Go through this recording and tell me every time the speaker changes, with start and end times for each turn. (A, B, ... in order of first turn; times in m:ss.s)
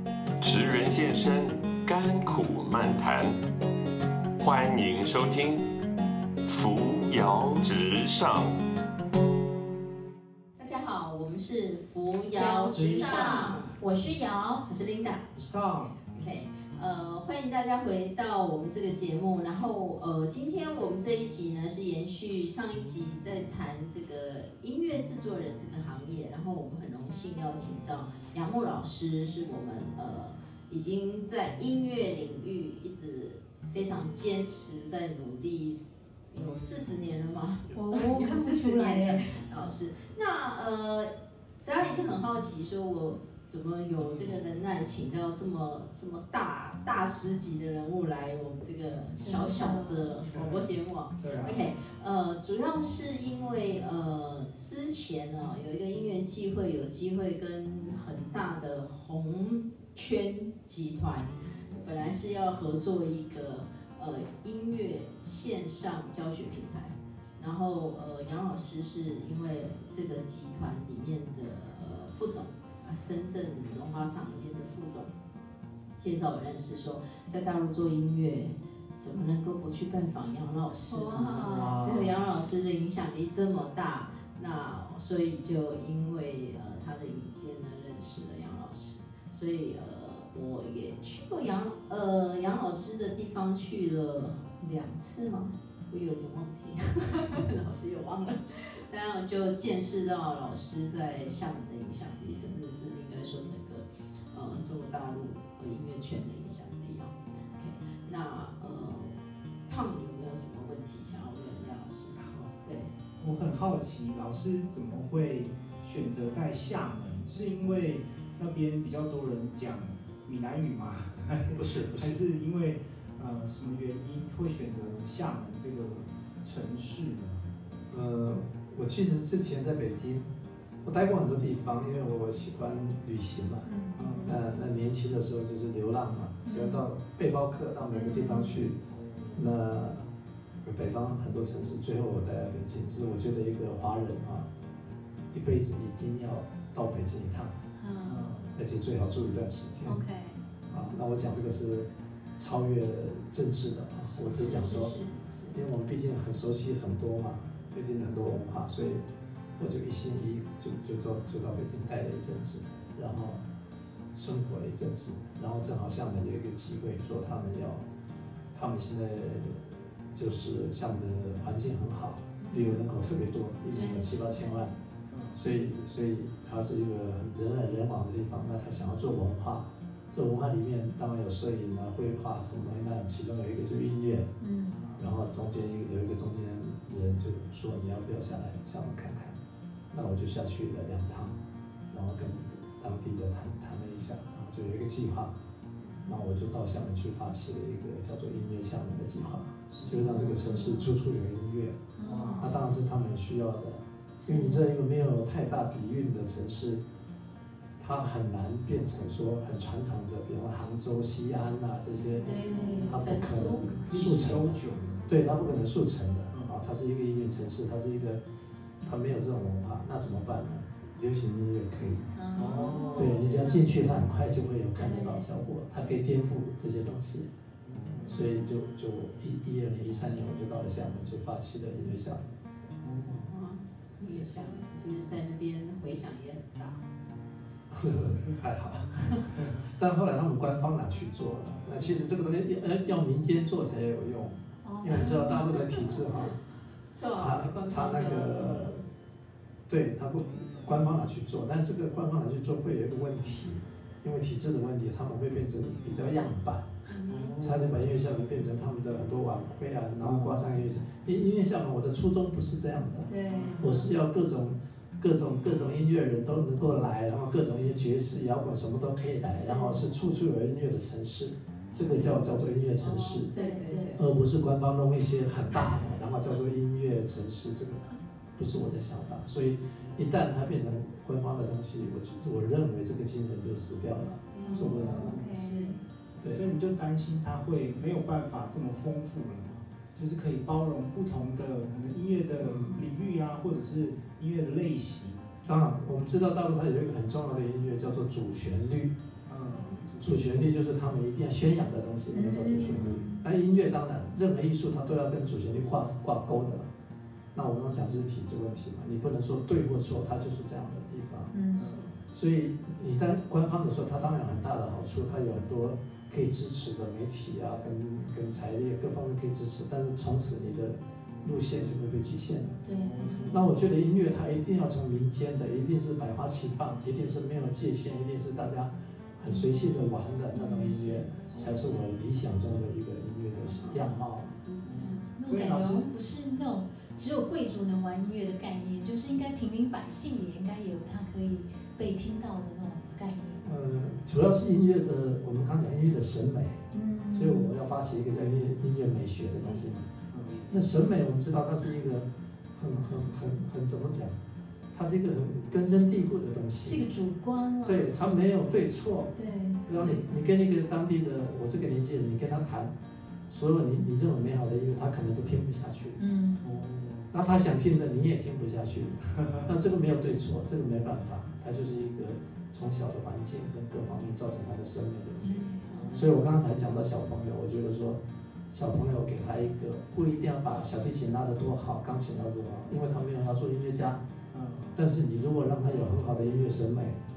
0:00.4-0:03.4 A
0:04.4-0:05.6 A
0:06.4-0:08.6 A
0:10.6-0:13.8 B
0:12.3-0:14.6 C
0:12.6-0:13.6 D
0:14.7-0:15.3 B
0:15.3-0:16.0 D
0:16.1-0:41.1 B
0:37.7-0:39.4 C
0:41.6-1:15.1 B
0:49.2-0:50.2 C
0:50.3-0:50.7 D
0:51.2-0:51.6 D
1:16.0-1:49.1 B
1:20.9-1:21.9 C
1:21.4-1:22.2 D
1:49.7-1:52.9 B
1:52.2-1:52.5 D
1:53.2-2:07.4 D
2:01.5-2:02.2 E
2:07.9-2:10.3 E
2:10.8-2:13.7 E
2:13.6-2:14.4 C
2:14.0-2:14.4 D
2:14.2-2:18.8 E
2:16.4-2:16.8 C
2:17.9-2:18.6 C
2:18.9-2:19.5 D
2:19.3-2:20.1 E
2:20.6-2:24.5 E
2:25.3-2:27.5 E
2:27.8-2:28.2 C
2:28.1-2:28.6 D
2:28.5-2:30.0 E
2:29.8-2:30.4 C
2:30.7-2:34.9 E
2:34.3-2:35.5 C
2:35.5-2:39.0 E
2:39.6-2:43.4 E
2:44.2-2:47.9 E
2:48.5-2:54.7 E
2:52.4-2:52.8 C
2:53.7-2:54.8 C
2:55.1-2:55.4 D
2:55.3-3:04.3 E
3:04.4-3:04.8 C
3:04.8-3:05.0 D
3:05.0-3:09.4 E
3:09.9-3:11.4 E
3:11.9-3:15.3 E
3:16.0-3:26.8 E
3:19.9-3:20.3 D
3:20.4-3:20.9 C
3:22.0-3:22.6 C
3:22.0-3:22.7 D
3:24.2-3:24.6 C
3:27.8-3:38.2 E
3:32.2-3:35.1 D
3:32.2-3:33.0 C
3:32.9-3:33.8 B
3:38.8-3:42.1 E
3:42.2-3:43.7 C
3:42.4-3:43.2 D
3:42.9-3:47.3 E
3:44.8-3:45.2 C
3:47.6-3:48.2 D
3:48.1-3:52.2 E
3:52.8-3:53.3 D
3:53.1-3:56.8 B
3:57.7-4:06.4 E
4:04.6-4:05.9 C
4:07.0-4:08.7 B
4:07.2-4:08.8 E
4:09.7-4:16.7 E
4:16.9-4:17.4 B
4:17.1-4:17.9 D
4:17.4-4:33.3 E
4:20.0-4:20.4 D
4:23.1-4:23.7 C
4:23.3-4:23.8 D
4:29.3-4:29.9 C
4:31.8-4:32.2 D
4:32.8-4:34.0 C
4:33.3-4:34.0 B
4:33.9-4:45.2 E
4:44.2-4:45.8 B
4:44.4-4:45.8 C
4:44.9-4:45.2 D
4:46.3-4:55.3 D
4:52.4-4:52.8 E
4:55.4-4:58.9 E
4:59.3-5:00.5 D
5:00.0-5:06.7 E
5:02.1-5:03.2 C
5:07.3-5:11.3 E
5:11.3-5:11.8 C
5:11.6-5:12.0 D
5:12.1-5:22.6 E
5:22.6-5:23.5 C
5:22.7-5:23.4 D
5:23.3-5:34.4 E
5:29.2-5:29.7 C
5:30.3-5:31.1 C
5:31.3-5:31.7 D
5:34.4-5:34.7 B
5:34.6-5:35.9 D
5:34.7-5:43.4 C
5:43.4-5:49.9 E
5:46.7-5:47.5 C
5:48.2-5:48.4 D
5:50.1-5:50.6 D
5:50.5-5:54.2 E
5:54.7-5:56.8 E
5:56.6-5:57.8 C
5:57.6-5:59.1 E
5:59.1-5:59.6 C
5:59.6-6:02.7 E
5:59.7-6:00.0 D
6:03.3-6:06.0 E
6:06.0-6:06.4 C
6:06.4-6:07.1 D
6:07.1-6:15.4 E
6:15.2-6:15.7 C
6:15.7-6:16.1 B
6:15.7-6:16.8 D
6:15.9-6:24.0 E
6:24.3-6:24.8 D
6:24.7-6:27.0 E